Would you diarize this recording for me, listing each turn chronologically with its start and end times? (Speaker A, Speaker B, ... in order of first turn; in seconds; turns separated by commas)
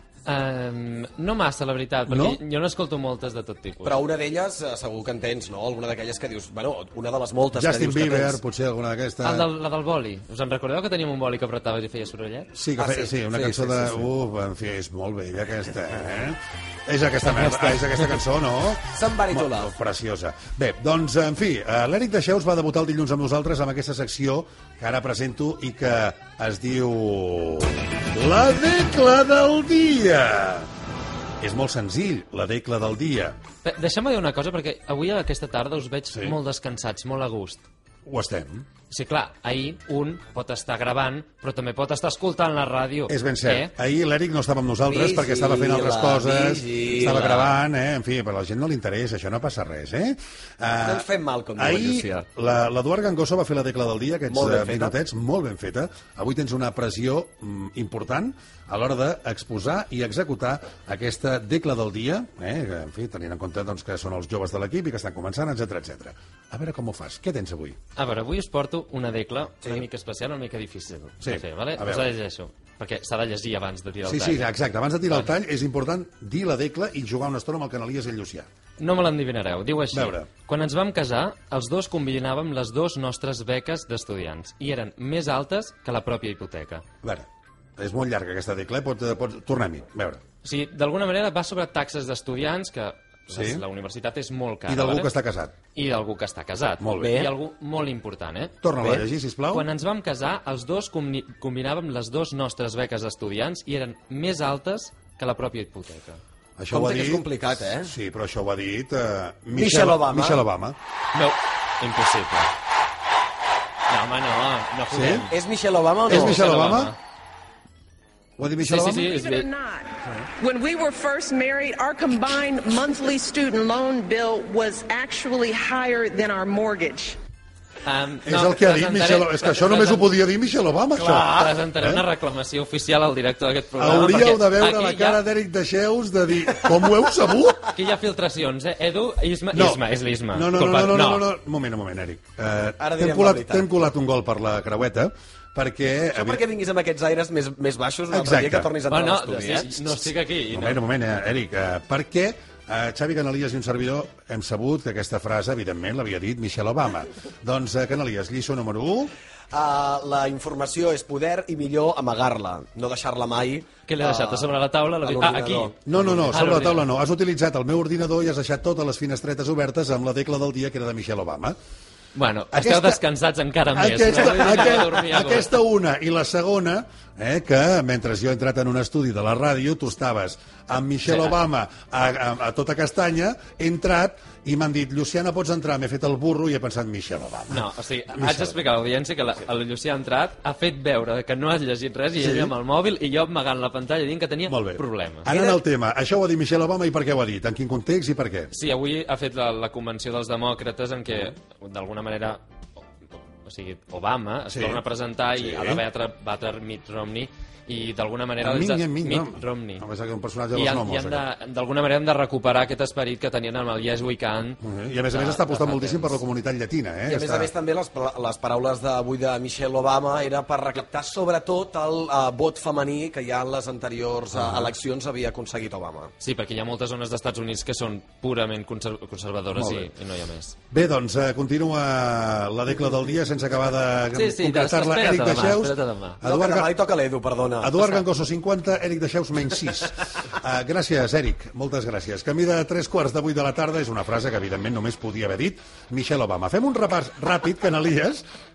Speaker A: 0.2-4.0, Speaker B: 2.1-2.4, Speaker C: 3.8-8.4, Speaker B: 7.5-9.5, Speaker A: 9.2-12.5, Speaker B: 12.5-30.7, Speaker C: 12.8-14.1, Speaker C: 18.9-19.7, Speaker B: 31.4-33.4, Speaker A: 33.6-37.6, Speaker B: 38.0-38.6, Speaker A: 38.9-43.7, Speaker B: 43.1-67.8, Speaker C: 44.9-47.5, Speaker A: 47.0-47.5, Speaker C: 50.8-52.2, Speaker C: 54.3-54.9, Speaker A: 68.0-74.5, Speaker B: 71.2-72.1, Speaker B: 74.0-78.5, Speaker A: 78.8-86.8, Speaker B: 79.9-80.3, Speaker B: 87.8-90.2, Speaker A: 90.4-95.1, Speaker B: 93.3-93.6, Speaker B: 94.7-95.5, Speaker A: 95.7-98.5, Speaker B: 96.8-97.2, Speaker C: 97.0-97.3, Speaker B: 98.6-99.7, Speaker C: 98.8-99.0, Speaker A: 99.5-106.2, Speaker B: 106.6-110.8, Speaker C: 106.7-107.9, Speaker C: 109.5-110.4, Speaker A: 111.1-112.5, Speaker A: 113.9-115.4, Speaker B: 114.9-115.2, Speaker C: 115.3-116.4, Speaker B: 116.1-116.9, Speaker A: 116.1-117.0, Speaker B: 118.4-119.1, Speaker A: 118.6-119.5, Speaker D: 119.1-127.2, Speaker A: 127.8-130.1, Speaker B: 128.2-132.0, Speaker A: 130.9-135.2, Speaker B: 133.8-137.7, Speaker A: 137.7-141.2, Speaker B: 139.5-146.4, Speaker C: 142.8-143.7, Speaker C: 146.1-150.0, Speaker B: 148.1-148.7, Speaker A: 148.9-150.8, Speaker B: 150.5-159.1, Speaker C: 159.5-165.8, Speaker A: 163.9-166.9, Speaker B: 165.8-171.6, Speaker A: 172.1-175.6, Speaker B: 172.5-173.0, Speaker B: 173.7-188.6, Speaker A: 181.0-181.4, Speaker A: 187.5-195.3, Speaker B: 192.2-192.5, Speaker B: 194.5-198.5, Speaker C: 195.3-195.6, Speaker A: 198.5-202.4, Speaker A: 203.4-209.8, Speaker B: 204.5-204.8, Speaker B: 205.3-205.8, Speaker B: 208.4-211.2, Speaker A: 210.5-216.2, Speaker B: 214.6-217.5, Speaker C: 217.1-226.1, Speaker B: 224.3-224.7, Speaker A: 226.2-230.5, Speaker B: 229.5-229.9, Speaker B: 230.7-236.7, Speaker A: 234.1-236.2, Speaker C: 236.2-237.9, Speaker B: 237.6-248.2